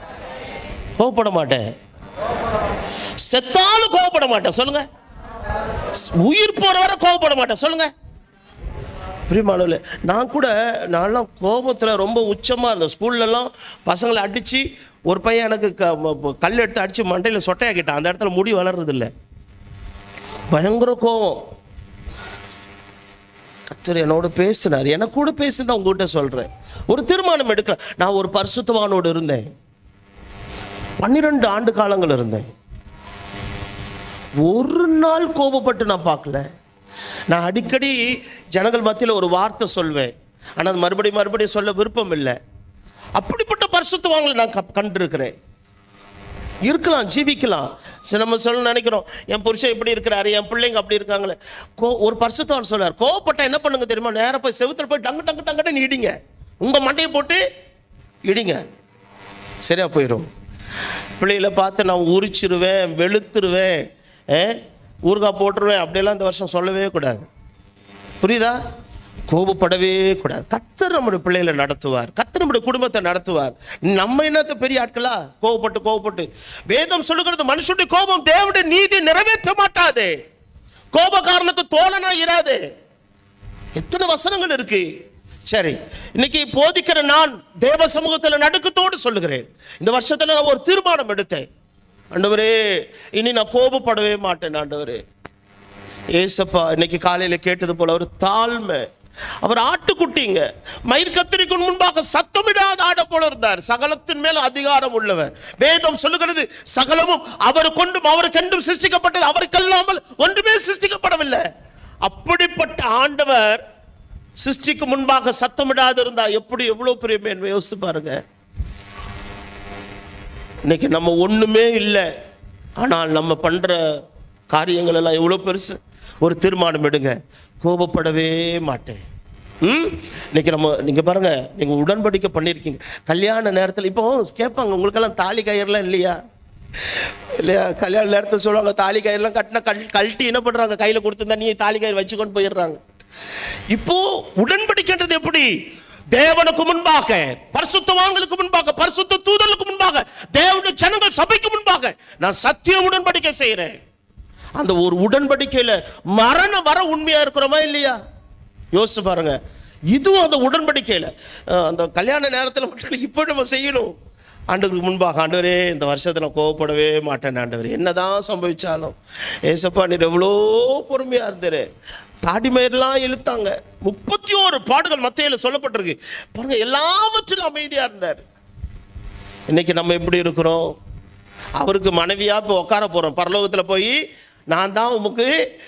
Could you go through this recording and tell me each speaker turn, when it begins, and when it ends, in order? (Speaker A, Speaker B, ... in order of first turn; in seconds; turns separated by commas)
Speaker A: 1.0-1.6, Speaker A: 3.2-4.8, Speaker A: 6.0-7.9, Speaker A: 9.3-19.1, Speaker A: 20.5-21.4, Speaker A: 23.7-29.5, Speaker A: 31.0-32.5, Speaker A: 34.4-36.4, Speaker A: 37.3-38.0, Speaker A: 38.5-42.4, Speaker A: 43.2-45.3, Speaker A: 46.7-57.4, Speaker A: 58.3-58.6, Speaker A: 59.6-60.3, Speaker A: 61.2-63.8, Speaker A: 64.3-67.3, Speaker A: 68.2-68.6, Speaker A: 69.3-80.1, Speaker A: 80.9-82.6, Speaker A: 83.8-84.9, Speaker A: 85.5-91.5, Speaker A: 92.1-92.5, Speaker A: 93.2-95.0, Speaker A: 96.2-98.9, Speaker A: 99.4-111.4, Speaker A: 112.0-113.6, Speaker A: 114.4-118.2, Speaker A: 120.7-122.1, Speaker A: 122.8-123.8, Speaker A: 124.5-129.0, Speaker A: 129.6-136.2, Speaker A: 137.4-142.8, Speaker A: 143.7-145.5, Speaker A: 146.1-153.8, Speaker A: 154.6-158.0, Speaker A: 158.7-159.4, Speaker A: 159.9-163.9, Speaker A: 164.5-168.9, Speaker A: 169.5-171.7, Speaker A: 172.2-178.2, Speaker A: 179.5-180.6, Speaker A: 181.6-184.0, Speaker A: 184.5-185.3